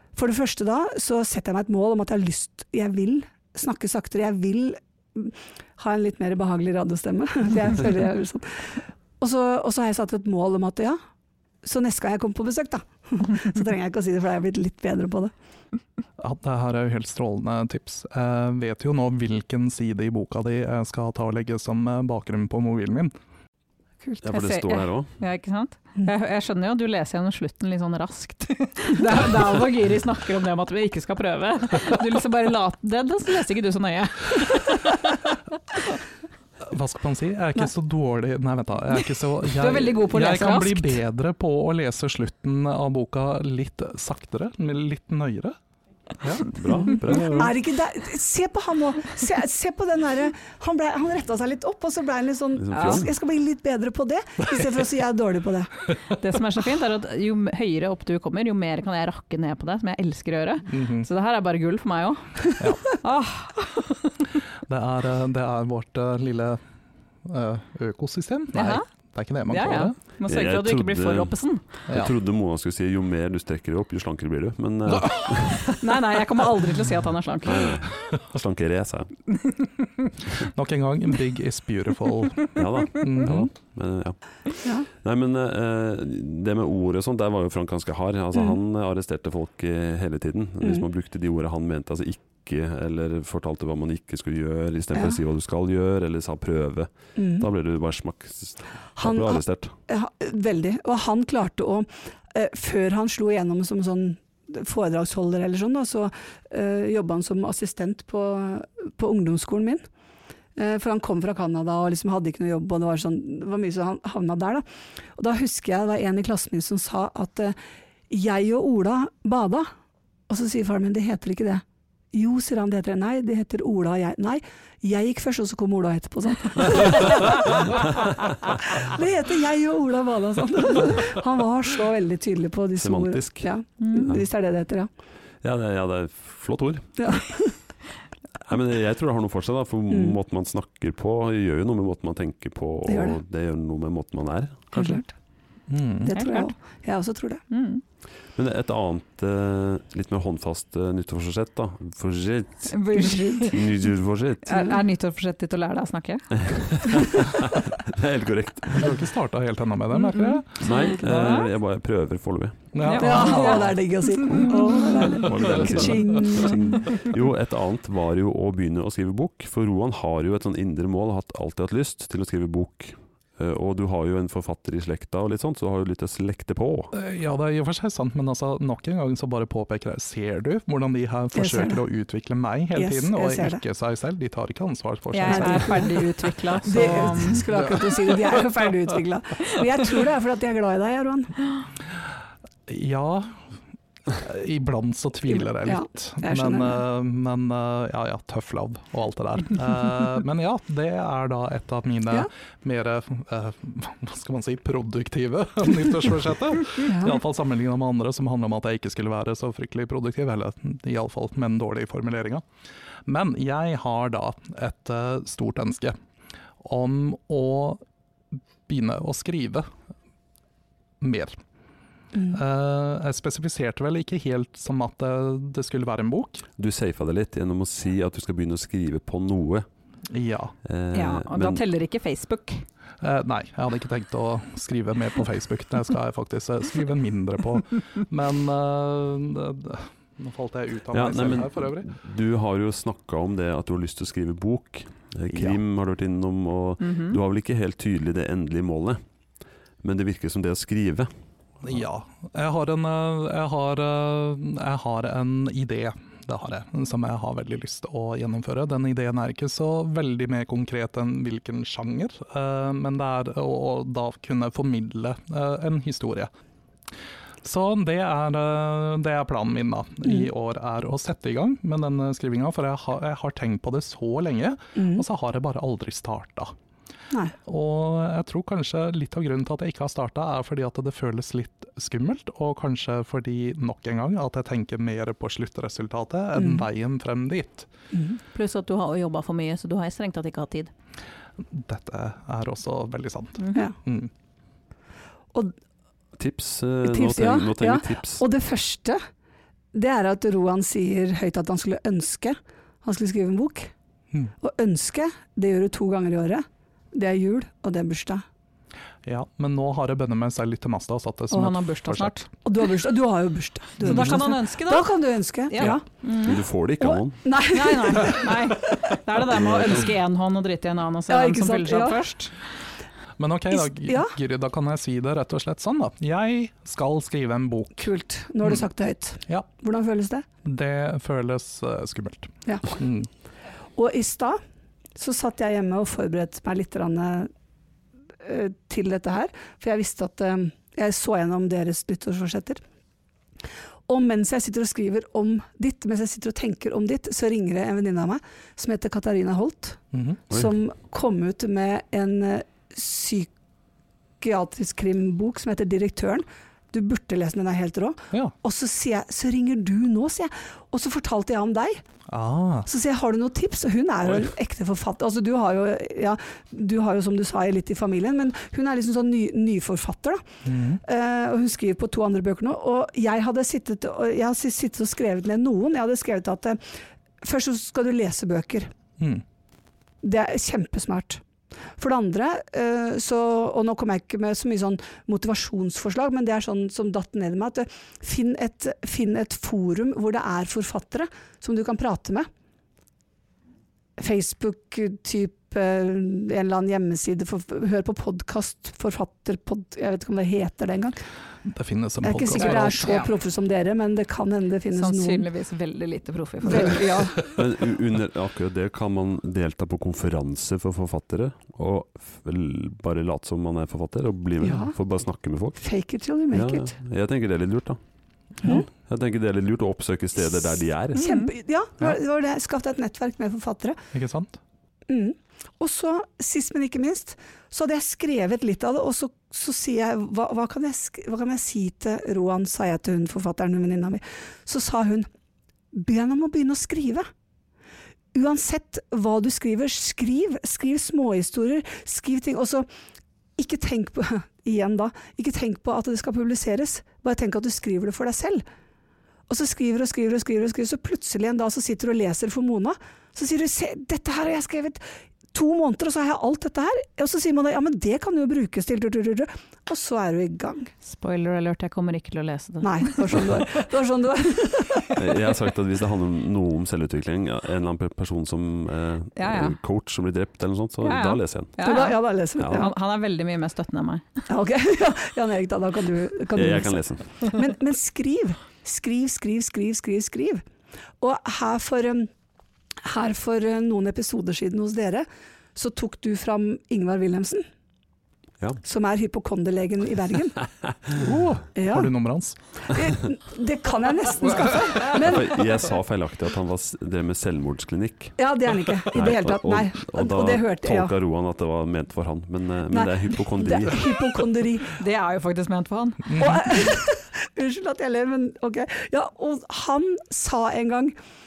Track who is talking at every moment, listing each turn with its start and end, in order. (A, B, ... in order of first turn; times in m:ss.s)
0:00.2-0:11.0 A
0:11.6-0:15.3 A
0:16.2-0:23.1 B
0:24.2-0:25.1 C
0:24.3-0:35.3 D
0:36.7-0:45.6 B
0:39.4-0:41.0 D
0:46.2-0:46.5 B
0:46.4-0:47.6 C
0:46.8-0:55.7 A
0:52.6-0:53.1 C
0:52.7-0:53.1 D
0:56.1-1:04.3 D
1:00.7-1:01.1 B
1:02.6-1:02.9 B
1:04.7-1:06.6 B
1:07.2-1:10.0 B
1:08.5-1:08.8 D
1:09.5-1:11.7 D
1:10.2-1:11.3 C
1:11.9-1:15.8 C
1:14.9-1:15.2 B
1:15.6-1:17.9 D
1:17.4-1:19.1 C
1:19.4-1:20.1 D
1:20.2-1:23.5 B
1:22.5-1:39.7 C
1:37.2-1:37.5 A
1:39.0-1:49.8 A
1:50.6-1:54.6 A
1:55.2-1:57.6 A
1:58.1-1:59.7 A
2:00.3-2:07.9 A
2:08.8-2:14.9 A
2:12.8-2:13.5 C
2:13.8-2:14.2 D
2:15.4-2:17.2 C
2:17.0-2:17.6 A
2:18.5-2:25.0 C
2:19.9-2:20.2 A
2:22.9-2:23.2 A
2:24.7-2:25.1 A
2:25.7-2:26.1 B
2:26.0-2:27.4 A
2:26.1-2:26.5 D
2:27.5-2:27.8 D
2:28.4-2:32.9 C
2:32.7-2:33.8 D
2:33.0-2:33.5 A
2:33.5-2:34.6 C
2:34.4-2:36.3 D
2:36.4-2:39.0 C
2:38.7-2:41.4 B
2:39.9-2:41.2 D
2:40.6-2:42.7 C
2:42.7-2:43.8 B
2:42.8-2:45.3 D
2:43.0-2:46.8 A
2:44.4-2:46.0 B
2:45.1-2:56.9 C
2:56.9-3:05.9 B
3:01.4-3:01.8 A
3:02.8-3:03.6 A
3:05.1-3:07.5 D
3:05.2-3:06.1 A
3:06.6-3:11.4 A
3:12.7-3:13.5 B
3:14.1-3:32.4 B
3:15.6-3:16.8 A
3:26.9-3:27.2 A
3:33.1-3:36.0 B
3:36.6-3:37.8 B
3:38.7-3:39.7 B
3:41.0-3:41.4 B
3:42.2-3:46.4 B
3:46.6-3:49.7 C
3:50.1-3:50.6 B
3:50.6-3:51.6 C
3:50.9-3:52.6 D
3:53.0-4:01.9 B
4:00.9-4:09.0 C
4:05.3-4:05.6 B
4:06.8-4:07.2 D
4:09.8-4:11.1 C
4:11.6-4:26.3 B
4:27.4-4:36.5 B
4:34.8-4:35.0 A
4:37.4-4:47.7 B
4:46.4-4:46.6 A
4:47.9-4:48.2 A
4:48.3-4:50.7 D
4:51.5-4:54.1 B
4:53.4-4:53.7 D
4:56.2-4:58.2 C
4:56.8-4:59.0 A
4:59.7-5:03.7 A
5:04.4-5:08.2 A
5:09.1-5:12.2 B
5:11.3-5:12.3 D
5:12.4-5:15.8 A
5:13.8-5:14.9 D
5:13.9-5:14.2 B
5:15.5-5:16.4 D
5:16.2-5:17.2 C
5:16.8-5:18.5 A
5:17.5-5:22.3 D
5:19.2-5:19.9 C
5:21.1-5:22.1 A
5:23.2-5:27.9 B
5:23.6-5:24.1 A
5:27.8-5:30.3 A
5:30.4-5:33.1 B
5:33.8-5:34.4 A
5:35.0-5:37.3 A
5:38.2-5:42.6 A
5:43.9-5:53.3 A
5:49.9-5:50.2 B
5:54.2-6:01.8 A
6:02.1-6:02.7 B
6:02.7-6:10.2 A
6:10.4-6:10.8 B
6:10.8-6:16.6 A
6:17.2-6:18.7 A
6:20.0-6:21.2 A
6:21.8-6:32.3 A
6:34.0-6:41.0 A
6:41.5-6:42.9 B
6:42.0-6:45.3 A
6:42.4-6:43.1 D
6:44.7-6:47.1 D
6:46.4-6:47.3 A
6:47.3-6:55.6 C
6:54.4-6:54.8 A
6:55.6-6:56.7 A
6:56.3-6:57.8 C
6:58.4-6:58.7 A
6:58.4-7:01.0 C
7:01.0-7:01.3 D
7:01.0-7:03.8 A
7:03.9-7:04.4 B
7:04.9-7:15.1 A
7:15.7-7:17.1 A
7:18.1-7:22.7 A
7:23.4-7:28.4 A
7:29.3-7:40.7 A
7:40.8-7:43.5 D
7:42.6-7:45.1 A
7:44.9-7:51.6 C
7:49.2-7:49.6 D
7:50.8-7:54.0 D
7:51.6-7:52.7 A
7:52.4-7:52.7 C
7:54.3-8:00.4 A
7:56.3-7:57.1 C
8:01.0-8:02.1 A
8:02.8-8:07.4 A
8:08.6-8:10.4 A
8:10.9-8:12.4 B
8:11.6-8:11.9 A
8:12.7-8:15.5 A
8:14.3-8:14.6 B
8:14.9-8:18.2 C
8:18.2-8:21.0 A
8:18.9-8:23.8 C
8:22.7-8:24.8 A
8:24.7-8:26.5 D
8:26.1-8:31.0 A